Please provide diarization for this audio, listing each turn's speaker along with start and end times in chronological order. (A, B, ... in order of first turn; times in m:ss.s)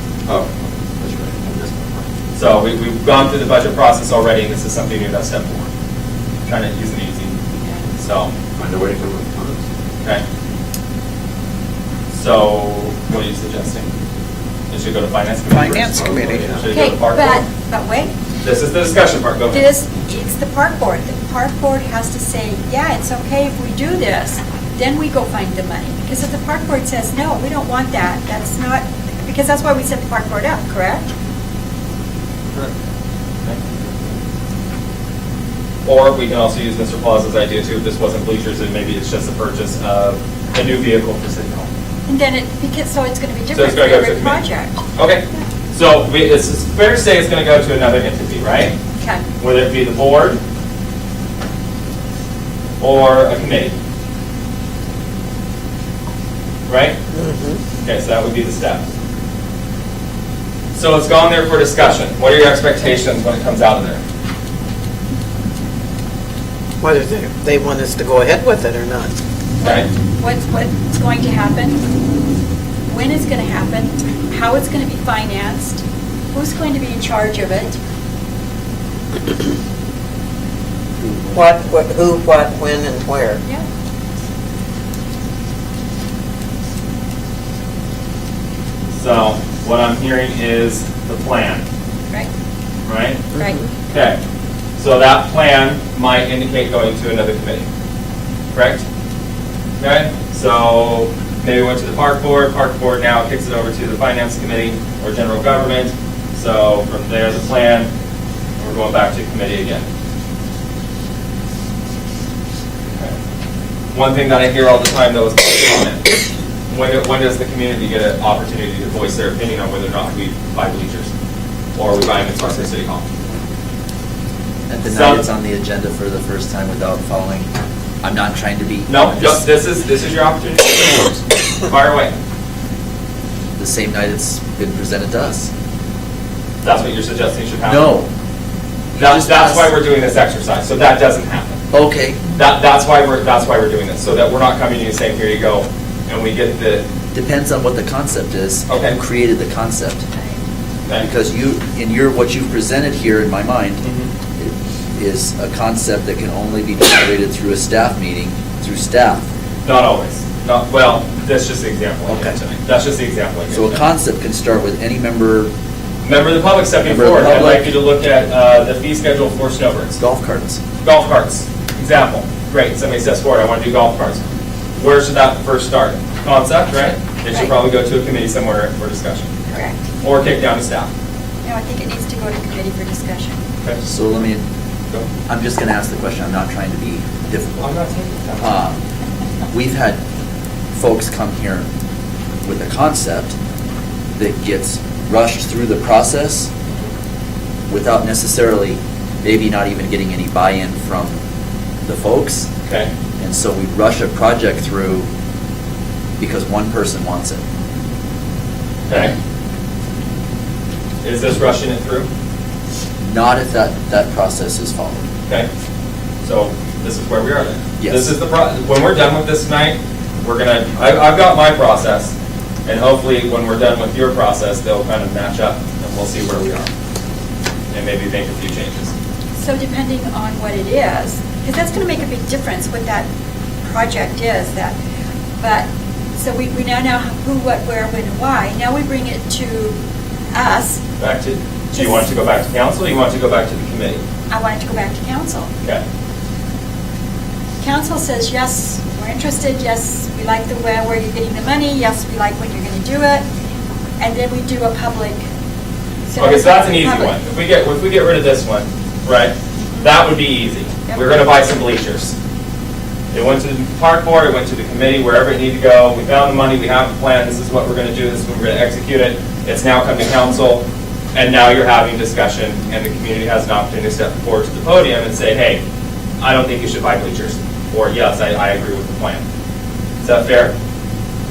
0:00.2-0:02.1 A
0:02.4-0:05.7 B
0:06.4-0:07.4 B
0:08.0-0:08.3 B
0:08.5-0:09.6 A
0:12.1-0:13.9 B
0:14.7-0:17.4 B
0:15.5-0:16.4 C
0:16.0-0:16.8 A
0:16.7-0:18.1 D
0:18.4-0:19.7 B
0:19.5-0:31.1 D
0:33.4-0:34.1 B
0:35.8-0:41.7 B
0:42.1-0:44.8 D
0:43.5-0:44.4 B
0:45.0-0:48.8 B
0:49.0-0:49.2 D
0:49.4-0:50.4 B
0:52.8-0:53.7 B
0:56.7-0:57.0 B
0:57.1-0:57.6 C
0:57.8-0:58.8 B
1:00.7-1:04.0 B
1:06.8-1:09.1 C
1:09.6-1:11.8 D
1:09.6-1:09.9 B
1:12.9-1:15.8 D
1:16.3-1:17.8 D
1:21.0-1:21.4 E
1:21.3-1:23.4 C
1:28.9-1:31.6 B
1:32.8-1:33.2 B
1:33.3-1:33.6 D
1:33.9-1:34.2 B
1:34.8-1:37.7 B
1:38.5-1:38.8 B
1:39.8-1:47.9 B
1:48.6-1:49.8 B
1:53.9-1:56.1 B
1:56.7-2:01.1 B
2:01.8-2:03.0 B
2:04.7-2:07.5 E
2:04.9-2:05.2 B
2:08.0-2:09.4 E
2:08.9-2:12.1 B
2:13.6-2:15.5 E
2:16.6-2:17.9 B
2:17.6-2:18.1 E
2:18.9-2:19.7 E
2:19.0-2:21.6 B
2:21.7-2:22.2 E
2:22.4-2:26.8 B
2:27.1-2:30.0 E
2:28.7-2:29.0 B
2:30.1-2:30.4 D
2:31.0-2:33.8 E
2:33.8-2:34.1 B
2:34.4-2:39.3 E
2:39.6-2:43.8 B
2:42.1-2:42.4 E
2:43.5-2:45.5 E
2:46.0-2:50.0 B
2:46.8-2:47.7 E
2:50.0-2:50.6 E
2:50.8-2:54.2 B
2:54.8-2:59.3 B
2:59.5-2:59.9 D
3:00.0-3:00.9 B
3:01.4-3:03.4 D
3:03.8-3:04.5 E
3:05.3-3:07.7 E
3:07.6-3:08.5 B
3:08.4-3:08.8 E
3:09.5-3:10.0 E
3:10.7-3:11.7 E
3:12.4-3:13.3 E
3:14.1-3:16.5 E
3:17.7-3:21.2 E
3:21.8-3:22.5 E
3:22.6-3:22.9 B
3:23.2-3:25.1 E
3:26.2-3:27.4 E
3:28.9-3:29.2 B
3:31.0-3:32.1 B
3:33.0-3:35.0 E
3:36.2-3:42.1 B
3:37.8-3:38.1 E
3:42.6-3:46.7 B
3:47.7-3:48.9 B
3:49.4-3:53.1 D
3:53.6-3:54.8 D
3:55.4-3:59.8 D
4:00.3-4:00.8 D
4:01.0-4:04.0 B
4:01.7-4:02.0 D
4:04.3-4:05.5 D
4:07.6-4:13.2 D
4:14.0-4:15.2 D
4:16.1-4:17.2 D
4:16.2-4:22.1 B
4:19.6-4:19.9 D
4:20.9-4:21.2 D
4:23.1-4:35.6 B
4:36.2-4:39.2 B
4:40.0-4:40.5 B